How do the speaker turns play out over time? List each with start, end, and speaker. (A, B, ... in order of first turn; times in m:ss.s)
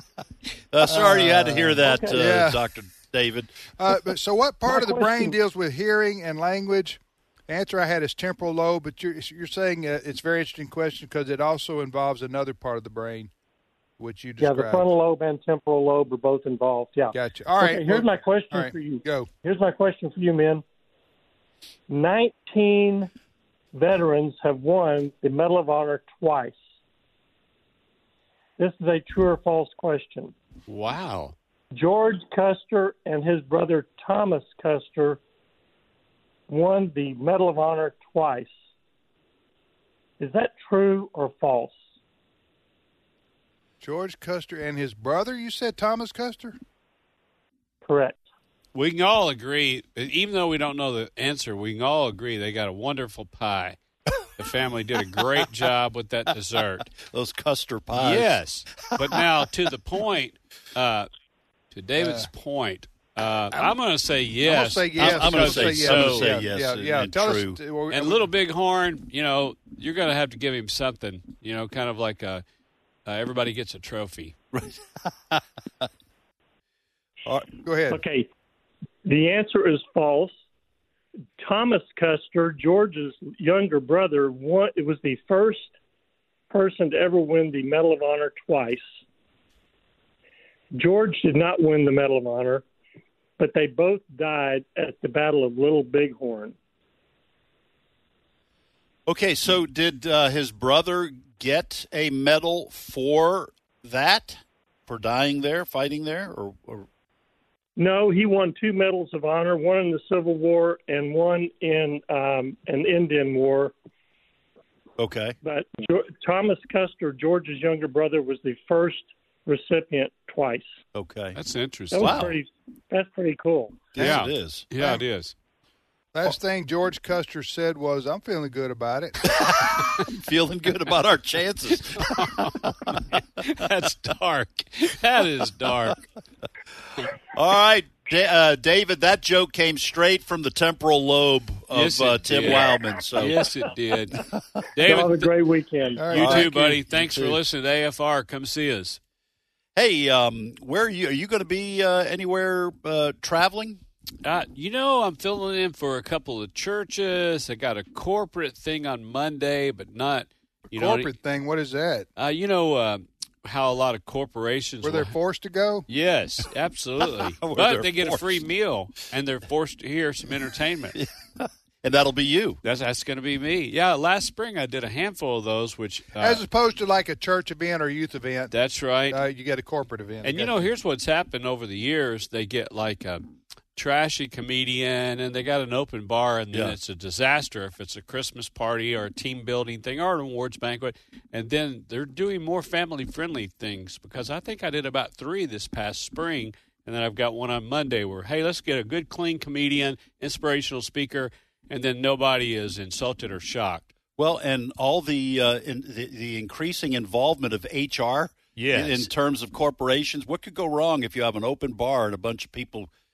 0:00.7-0:03.5 A
0:00.8-0:02.6 B
0:01.8-0:02.2 C
0:03.8-0:13.3 B
0:04.7-0:05.4 C
0:14.0-0:14.9 B
0:14.4-0:20.6 C
0:17.1-0:19.3 B
0:21.9-0:23.1 C
0:23.7-0:26.6 C
0:28.6-0:30.3 C
0:30.7-0:31.3 D
0:31.7-0:35.2 C
0:36.5-0:38.5 C
0:40.2-0:41.8 C
0:43.8-0:46.6 B
0:47.8-0:48.2 C
0:48.7-0:53.8 D
0:54.4-0:56.9 D
0:56.9-0:58.4 A
0:58.0-1:01.1 D
0:58.9-0:59.2 A
1:01.7-1:06.3 D
1:02.0-1:02.3 B
1:04.4-1:08.2 B
1:05.0-1:07.6 A
1:07.9-1:12.4 D
1:13.0-1:14.3 D
1:14.5-1:15.9 A
1:17.2-1:18.0 B
1:17.9-1:18.3 C
1:19.0-1:20.3 C
1:21.4-1:25.7 C
1:26.5-1:28.9 C
1:30.8-1:32.6 C
1:33.4-1:36.6 C
1:39.0-1:46.8 A
1:47.8-1:53.7 C
1:55.0-1:55.4 A
1:55.4-2:00.8 C
2:00.9-2:01.4 A
2:01.3-2:02.3 D
2:01.9-2:03.9 C
2:01.9-2:02.3 A
2:04.0-2:04.7 A
2:04.0-2:05.3 D
2:06.1-2:09.2 B
2:09.3-2:13.2 A
2:11.7-2:16.0 D
2:17.3-2:23.5 A
2:21.7-2:24.2 D
2:24.7-2:25.3 D
2:24.8-2:26.1 C
2:26.0-2:26.8 B
2:26.1-2:29.0 D
2:26.1-2:27.4 A
2:29.8-2:33.8 A
2:34.2-2:41.1 D
2:40.7-2:42.1 B
2:42.2-2:45.1 D
2:44.8-2:45.8 B
2:45.9-2:51.0 D
2:47.4-2:48.4 A
2:50.9-2:52.6 A
2:52.6-2:56.4 D
2:56.2-2:58.5 B
2:58.5-2:59.2 D
2:59.1-3:00.7 B
3:00.2-3:03.2 D
3:03.8-3:23.9 D
3:24.2-3:32.9 A
3:28.6-3:29.1 D